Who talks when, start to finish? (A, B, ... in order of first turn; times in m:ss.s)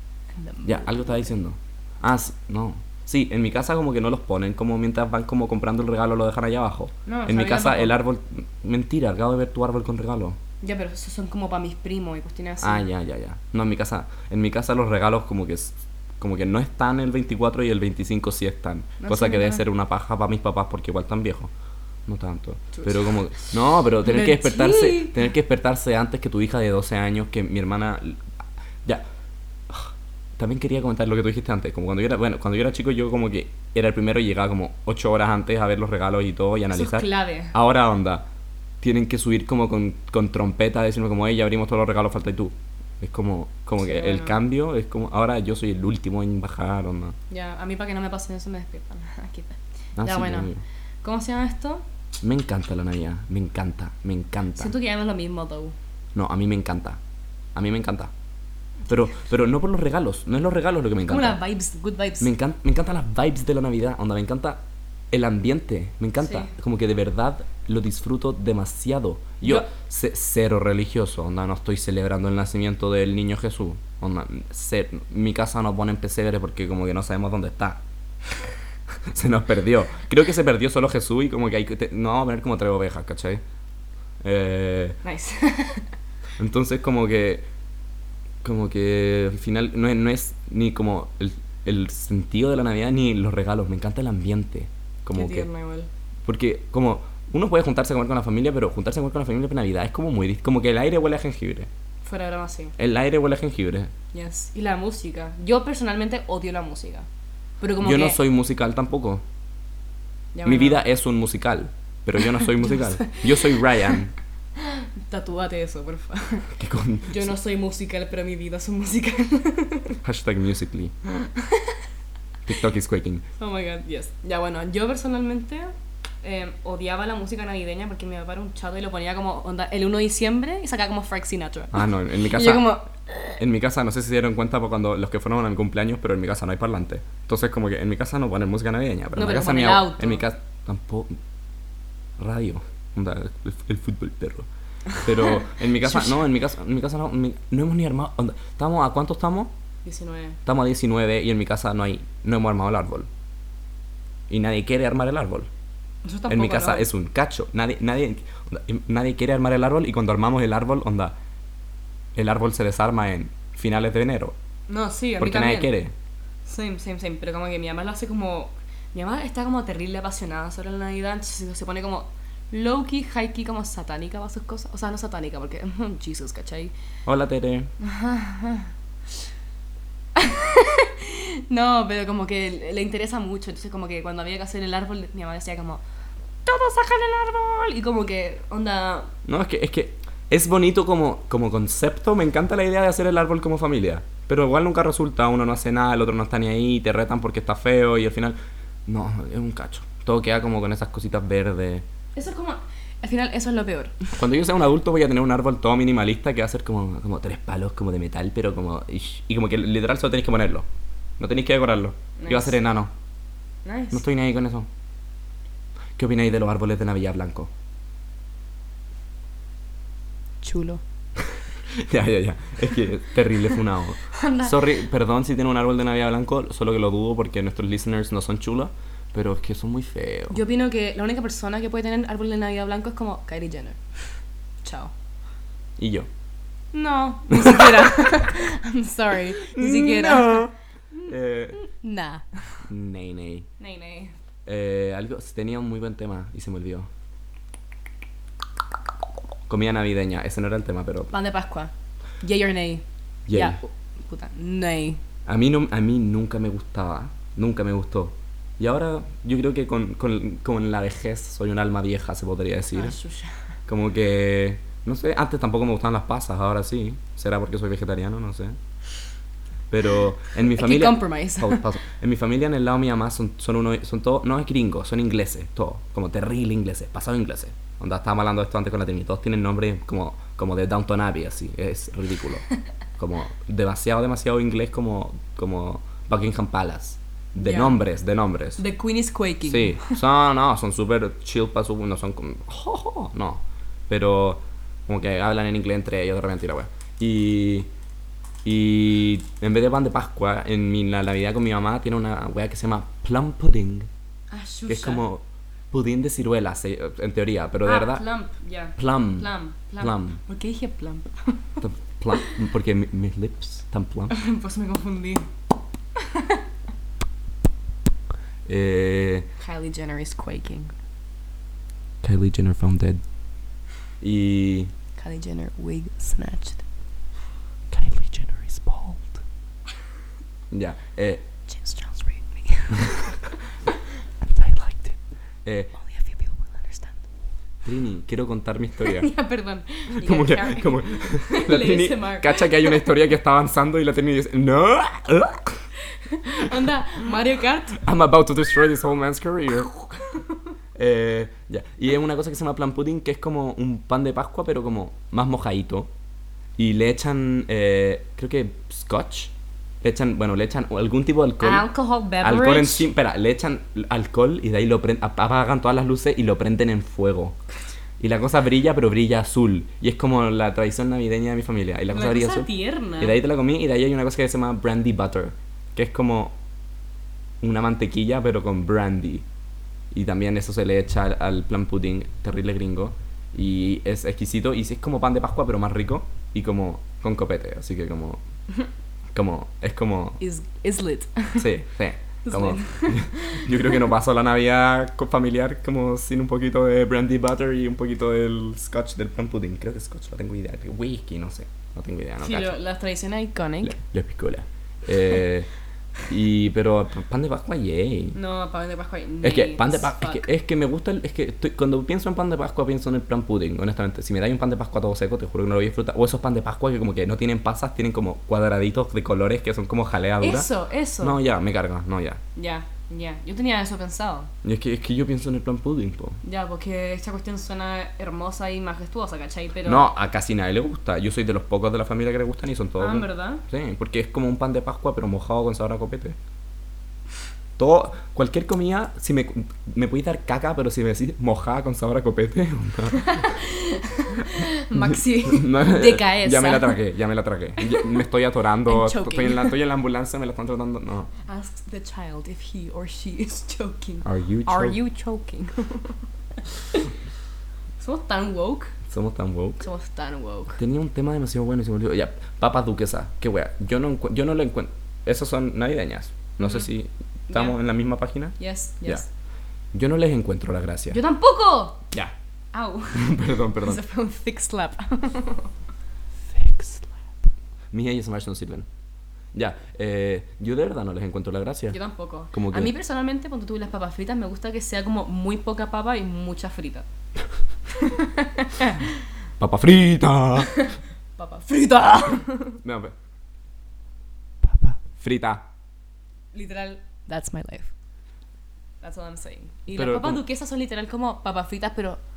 0:00.4-0:01.3 A
0:00.6-0:10.4 B
0:07.1-0:08.0 A
0:10.6-0:12.9 A
0:12.6-0:21.5 B
0:19.0-0:19.6 A
0:22.1-0:28.3 B
0:22.7-0:23.2 A
0:24.0-0:25.3 A
0:29.7-0:38.3 B
0:36.7-0:37.6 A
0:38.8-0:47.2 B
0:43.8-0:44.4 A
0:47.3-0:50.5 A
0:50.0-0:50.6 B
0:51.0-0:51.8 A
0:52.2-0:54.7 B
0:54.6-0:55.8 A
0:56.2-0:57.0 B
0:57.6-0:58.1 B
0:58.9-1:01.4 B
1:01.1-1:02.3 A
1:02.2-1:17.8 B
1:06.2-1:06.5 A
1:09.4-1:09.7 A
1:19.1-1:23.4 B
1:24.2-1:25.0 B
1:25.0-1:25.9 A
1:26.4-1:27.5 B
1:28.4-1:35.5 B
1:35.1-1:35.9 A
1:36.3-1:41.7 B
1:42.0-1:42.8 A
1:42.8-1:43.9 B
1:44.1-1:47.1 A
1:47.6-1:48.2 A
1:47.8-1:49.2 B
1:50.3-1:50.8 A
1:50.4-1:54.1 B
1:52.4-1:53.6 A
1:54.6-1:56.5 A
1:56.6-1:57.3 B
1:57.1-2:00.0 A
2:00.0-2:00.9 B
2:01.2-2:01.8 A
2:02.5-2:03.3 B
2:03.4-2:13.4 A
2:11.7-2:12.8 B
2:13.4-2:21.2 B
2:19.1-2:20.2 A
2:22.2-2:29.5 B
2:25.8-2:26.2 A
2:29.8-2:30.4 A
2:30.4-2:33.1 B
2:34.3-2:35.5 B
2:36.0-2:36.9 A
2:36.3-2:41.2 B
2:42.2-2:44.4 B
2:44.7-2:45.7 A
2:45.2-2:45.9 B
2:46.5-2:56.7 A
2:57.1-2:57.7 B
2:57.8-2:58.7 A
3:00.2-3:05.8 A
3:06.4-3:09.1 A
3:09.3-3:21.9 B
3:22.2-3:24.1 A
3:24.1-3:30.7 B
3:31.2-3:32.9 B
3:32.2-3:32.6 A
3:33.6-3:34.0 A
3:33.9-3:34.7 B
3:36.0-3:37.5 B
3:40.4-3:40.8 A
3:41.7-3:50.4 B
3:44.0-3:44.8 A
3:50.3-3:54.0 A
3:54.6-3:54.9 A
3:55.8-3:56.1 B
3:56.7-4:00.5 A
3:57.4-3:57.7 B
3:59.4-4:01.7 B
4:01.6-4:02.6 A
4:02.7-4:03.5 B
4:03.6-4:04.2 A
4:04.5-4:06.9 B
4:09.5-4:11.1 B
4:11.1-4:15.0 A
4:13.3-4:13.6 B
4:15.3-4:23.0 B
4:22.7-4:23.4 A
4:23.7-4:28.6 B
4:29.7-4:42.5 B
4:30.4-4:31.6 A
4:43.0-4:48.6 B
4:47.4-4:47.8 A
4:48.6-4:50.0 A
4:49.4-4:57.7 B
4:58.4-5:03.9 B
5:04.3-5:05.1 A
5:04.7-5:08.1 B
5:07.6-5:11.6 A
5:08.8-5:10.2 B
5:11.6-5:14.1 B
5:14.1-5:15.3 A
5:16.0-5:16.4 A
5:18.5-5:19.3 B
5:19.4-5:20.7 A
5:22.0-5:23.0 B
5:24.0-5:24.7 B
5:25.0-5:26.6 A
5:27.7-5:29.2 C
5:30.5-5:31.2 B
5:31.5-5:33.1 A
5:34.2-5:35.0 C
5:35.4-5:35.7 B
5:35.8-5:37.0 A
5:37.6-5:39.1 B
5:38.8-5:42.9 A
5:40.0-5:45.6 B
5:45.9-5:47.8 A
5:47.8-5:50.0 B
5:50.8-5:55.9 B
5:56.6-6:01.7 B
6:01.4-6:02.9 A
6:02.2-6:07.4 B
6:08.0-6:16.4 B
6:11.9-6:13.2 A
6:17.4-6:19.2 B
6:19.9-6:28.2 B
6:29.1-6:30.2 B
6:30.2-6:31.5 A
6:31.4-6:42.6 B
6:32.2-6:33.9 A
6:42.2-6:43.8 A
6:43.6-6:45.5 B
6:46.1-6:48.2 B
6:48.2-6:50.3 A
6:49.2-7:02.2 B
7:00.2-7:01.2 A
7:02.4-7:04.3 A
7:04.4-7:06.2 B
7:06.2-7:09.9 A
7:09.6-7:16.2 B
7:12.8-7:13.4 A
7:17.6-7:23.2 B
7:23.0-7:26.8 A
7:24.8-7:31.1 B
7:27.6-7:28.0 A
7:28.7-7:29.6 A
7:31.2-7:36.0 A
7:34.0-7:34.8 B
7:37.8-7:38.7 A
7:38.9-7:39.6 B
7:39.6-7:40.6 A
7:40.6-7:49.1 B
7:46.4-7:46.7 A
7:47.3-7:47.6 A
7:48.4-7:49.1 A
7:49.7-7:51.0 B
7:50.9-7:51.8 A
7:52.5-7:55.5 A
7:52.9-7:53.8 B
7:56.3-7:56.9 C
7:57.7-7:58.7 B
7:59.3-8:01.8 B
8:01.7-8:06.9 A
8:02.3-8:02.7 B
8:07.7-8:08.9 A
8:09.4-8:10.6 B
8:10.4-8:12.6 A
8:12.6-8:12.9 B
8:14.4-8:14.8 C
8:15.0-8:15.5 B
8:16.3-8:17.7 A
8:18.8-8:22.0 A
8:19.7-8:20.2 B